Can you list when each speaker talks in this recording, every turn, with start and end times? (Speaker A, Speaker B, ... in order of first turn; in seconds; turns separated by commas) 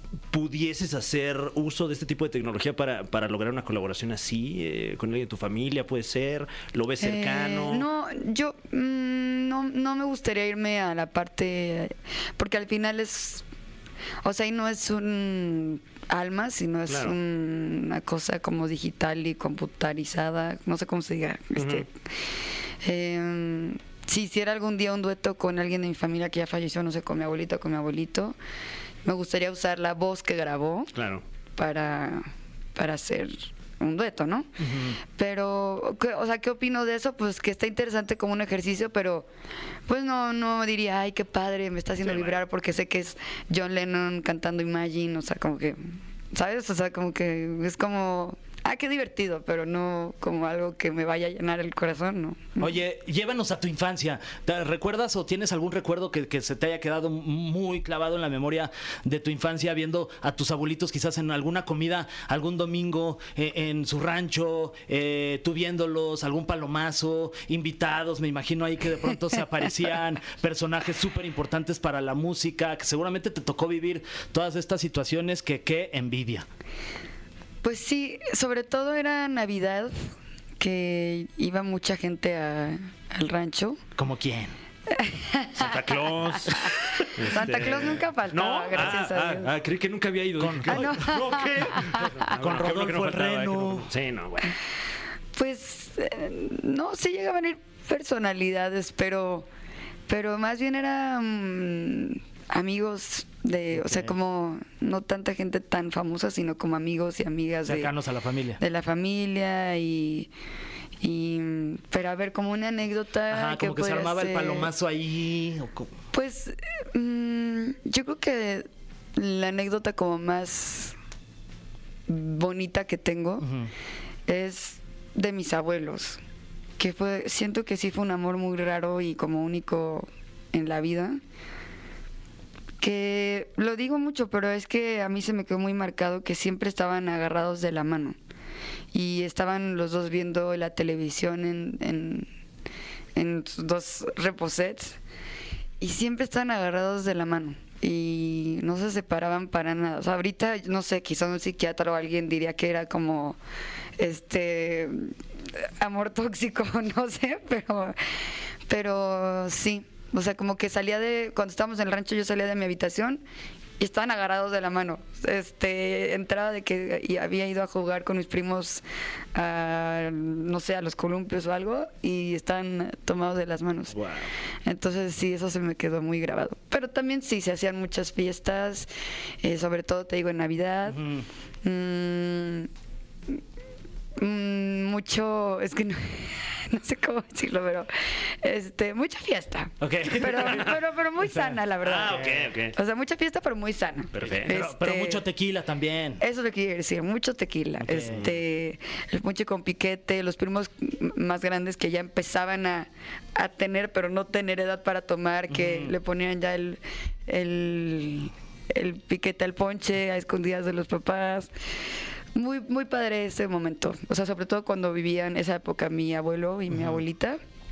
Speaker A: 0.3-7.9, Speaker B: 7.0-13.4, Speaker B: 14.2-21.9, Speaker A: 16.9-17.1, Speaker A: 21.6-21.8, Speaker B: 22.8-28.4, Speaker B: 29.0-30.9, Speaker A: 30.9-31.2, Speaker B: 31.6-34.5, Speaker C: 34.6-35.0, Speaker B: 35.1-39.3, Speaker B: 39.9-45.8, Speaker A: 42.0-42.4, Speaker B: 46.3-52.8, Speaker C: 52.6-76.5, Speaker B: 77.6-80.1, Speaker B: 80.6-83.8, Speaker C: 84.0-84.5, Speaker B: 84.9-86.0, Speaker A: 85.6-94.5, Speaker B: 86.5-89.5, Speaker C: 90.4-93.9, Speaker B: 90.7-92.2, Speaker B: 95.3-99.5, Speaker B: 100.1-107.9, Speaker C: 103.7-104.1, Speaker C: 107.6-108.6, Speaker B: 108.6-110.3, Speaker B: 111.0-114.7, Speaker C: 113.3-115.9, Speaker B: 116.1-120.9, Speaker B: 122.1-123.5, Speaker C: 123.4-123.7, Speaker B: 124.3-126.2, Speaker B: 126.8-131.2, Speaker B: 132.8-138.2, Speaker B: 138.9-142.3, Speaker B: 143.1-145.0, Speaker B: 145.8-153.4, Speaker B: 154.0-158.0, Speaker B: 158.7-163.2, Speaker B: 163.8-173.9, Speaker B: 174.6-178.9, Speaker B: 179.4-181.0, Speaker C: 180.9-181.2, Speaker B: 181.6-182.7, Speaker B: 184.2-195.2, Speaker C: 189.8-192.5, Speaker A: 191.8-192.8, Speaker A: 194.1-194.6, Speaker C: 194.2-196.2, Speaker B: 196.2-211.5, Speaker C: 197.8-198.2, Speaker A: 198.1-198.4, Speaker C: 205.5-205.9, Speaker B: 212.3-217.4, Speaker C: 216.7-217.0